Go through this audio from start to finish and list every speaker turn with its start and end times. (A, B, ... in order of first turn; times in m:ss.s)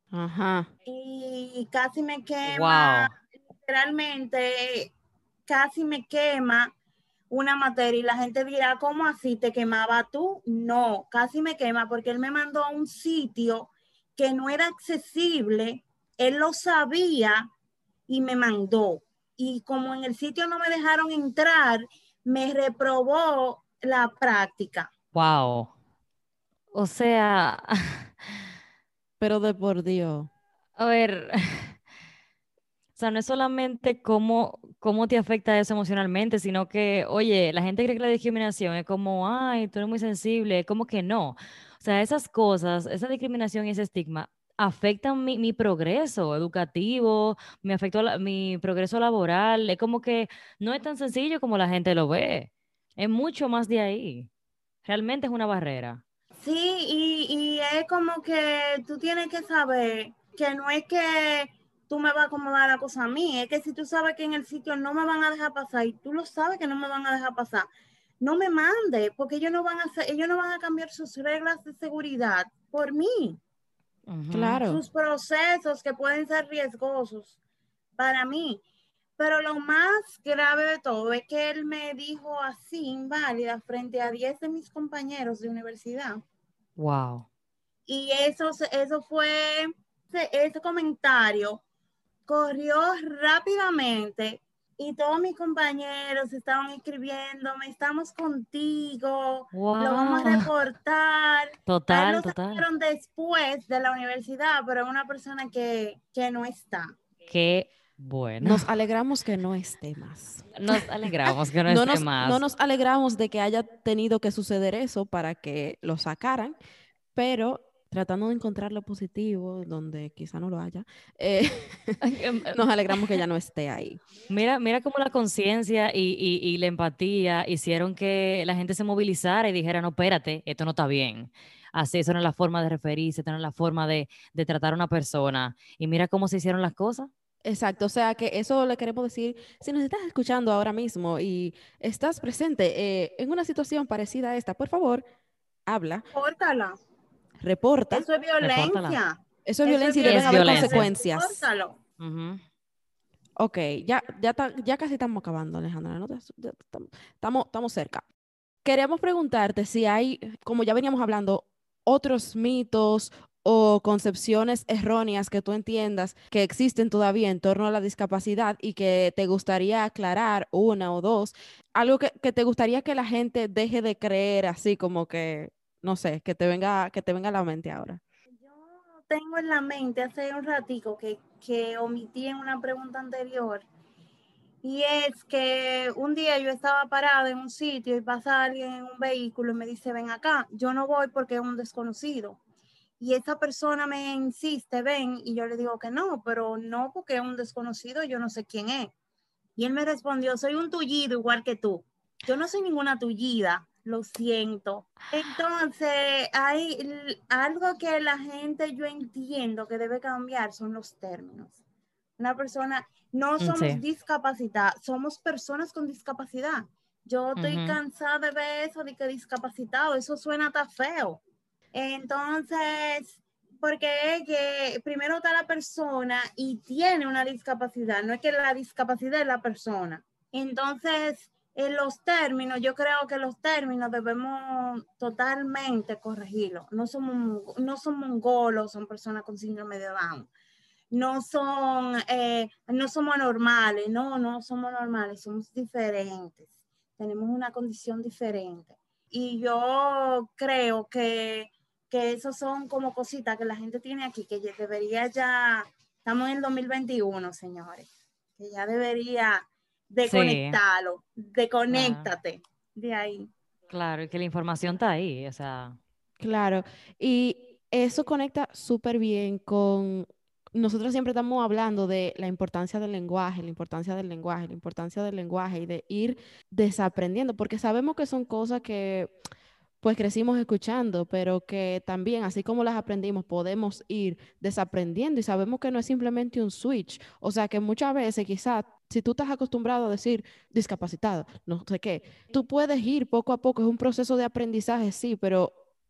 0:00.1-0:00.7 A
0:00.8-0:04.9 B
0:02.4-0:03.1 C
0:05.4-0:06.7 B
0:07.3-0:17.5 B
0:18.1-0:24.9 B
0:25.1-0:25.7 C
0:26.7-0:28.5 C
0:29.2-0:30.3 A
0:30.8-0:31.8 C
0:33.0-0:54.3 C
0:54.8-0:56.0 C
0:56.4-1:07.7 B
1:08.2-1:13.4 B
1:14.1-1:14.6 C
1:14.3-1:14.8 A
1:14.6-1:17.3 B
1:18.0-1:18.6 B
1:19.2-1:26.2 B
1:26.8-1:27.2 C
1:27.9-1:31.6 B
1:32.3-1:47.0 B
1:39.5-1:40.5 C
1:41.7-1:42.6 C
1:47.3-1:48.6 C
1:48.4-1:56.6 A
1:50.5-1:52.4 C
1:57.1-2:02.0 A
2:02.0-2:03.2 C
2:02.5-2:04.0 A
2:04.3-2:17.1 C
2:17.4-2:25.0 A
2:25.7-2:26.0 A
2:26.1-2:26.8 B
2:27.4-2:28.1 A
2:27.9-2:31.8 B
2:28.4-2:29.0 C
2:29.4-2:31.4 A
2:30.0-2:30.9 C
2:32.0-2:32.4 C
2:33.4-2:38.0 A
2:38.6-2:58.0 A
2:58.4-3:03.6 B
3:04.6-3:12.4 B
3:13.0-3:18.9 B
3:19.6-3:31.6 B
3:32.2-3:41.2 B
3:33.4-3:33.8 C
3:37.4-3:37.8 C
3:41.7-4:00.3 B
4:00.9-4:23.3 B
4:20.0-4:20.6 C
4:21.7-4:22.1 C
4:23.7-4:25.8 C
4:26.2-4:39.1 A
4:39.8-4:55.5 A